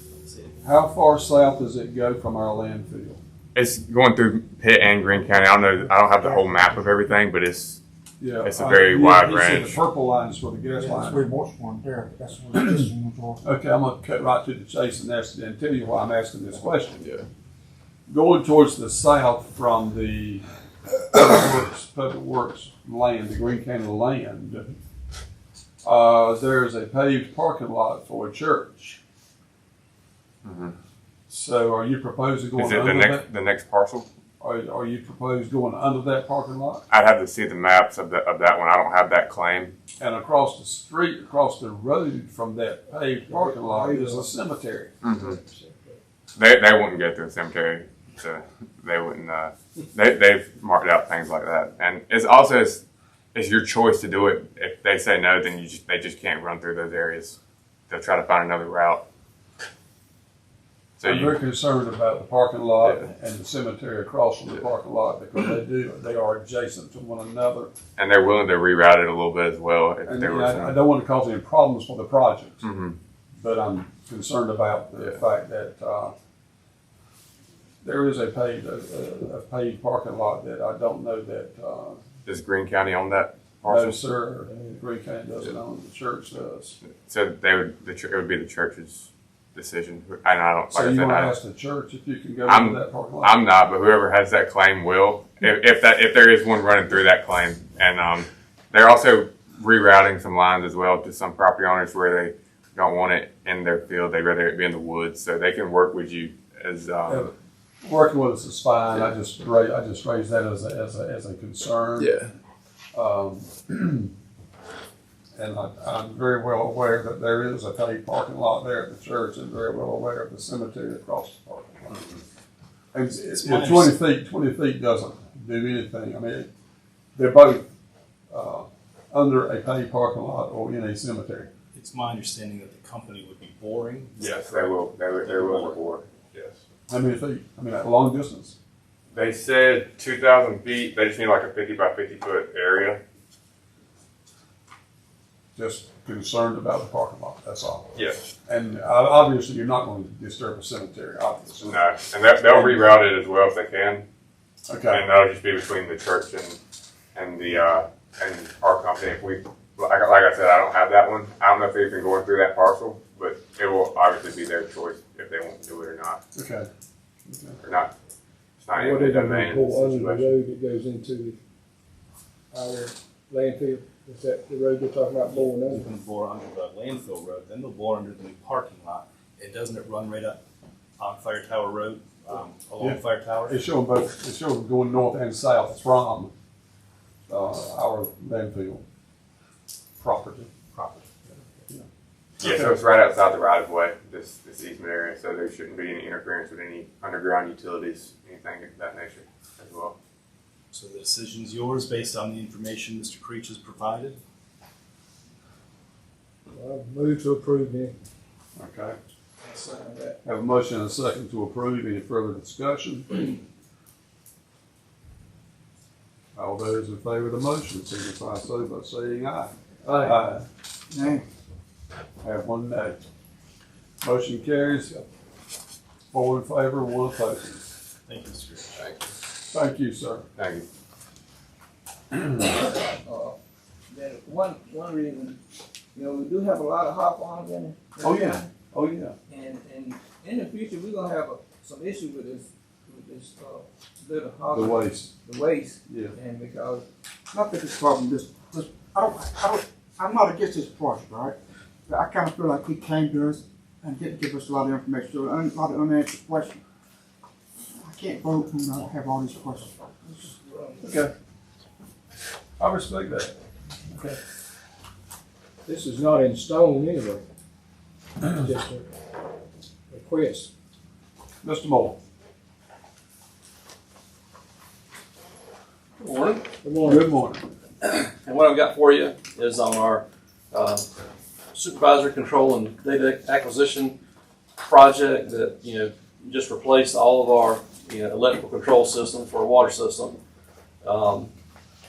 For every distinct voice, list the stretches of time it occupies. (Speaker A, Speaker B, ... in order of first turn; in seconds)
Speaker A: 0.2-0.6, 123.2-124.0, 131.7-135.8, 175.3-180.4, 181.0-183.7, 200.7-204.2, 228.1-229.0
Speaker B: 0.6-3.2, 8.2-11.2, 13.4-17.0, 18.1-20.4, 21.1-24.7, 25.8-29.0, 31.3-33.3, 34.4-36.8, 40.0-45.0, 61.0-67.7, 70.1-72.7, 73.4-76.2, 77.8-82.0, 83.7-86.8, 90.7-93.4, 107.1-107.3, 107.8-112.2, 112.9-114.1, 115.4-122.0, 122.9-126.5, 127.2-127.7, 128.3-131.5, 136.9-138.6, 145.6-147.9, 148.5-151.8, 152.5-153.0, 154.7-155.1, 166.3-166.7, 167.3-167.6, 182.8-186.3, 187.3-188.8, 190.0-190.8, 192.4-192.7, 208.6-209.0, 210.2-213.3, 216.3-220.4, 222.2-223.0, 224.0-225.1, 226.1-227.7, 229.5-230.3, 238.0-239.2, 244.5-245.2, 245.9-246.2, 260.8-261.1, 262.6-263.3, 263.9-264.2, 271.4-272.0, 276.8-277.4
Speaker C: 3.5-7.8, 8.4-9.8, 17.0-17.3, 30.4-30.8, 32.6-34.1, 36.9-39.8, 45.0-45.4, 46.4-57.4, 57.9-59.0, 61.0-61.4, 68.0-70.8, 72.6-73.0, 82.2-84.0, 86.8-91.4, 92.5-107.3, 112.0-112.3, 134.2-136.6, 139.1-143.0, 147.9-148.2, 151.6-154.1, 154.9-156.6, 157.2-166.2, 167.6-167.9, 168.6-170.3, 192.4-200.0, 228.8-229.0, 230.4-230.7
Speaker D: 5.8-6.8, 10.8-13.4, 220.9-221.2, 247.3-251.4, 251.9-256.6, 257.8-259.7
Speaker E: 43.3-44.3, 45.1-46.0, 84.5-84.8, 168.7-171.4, 172.5-175.9, 206.5-208.0, 265.7-267.2, 268.2-268.9, 269.9-270.5, 276.6-277.1
Speaker F: 209.5-210.2, 232.5-233.4, 233.9-235.4, 235.9-238.5, 239.3-246.8
Speaker G: 276.0-276.4, 277.9-280.9, 281.5-284.0, 284.6-290.2, 290.8-291.3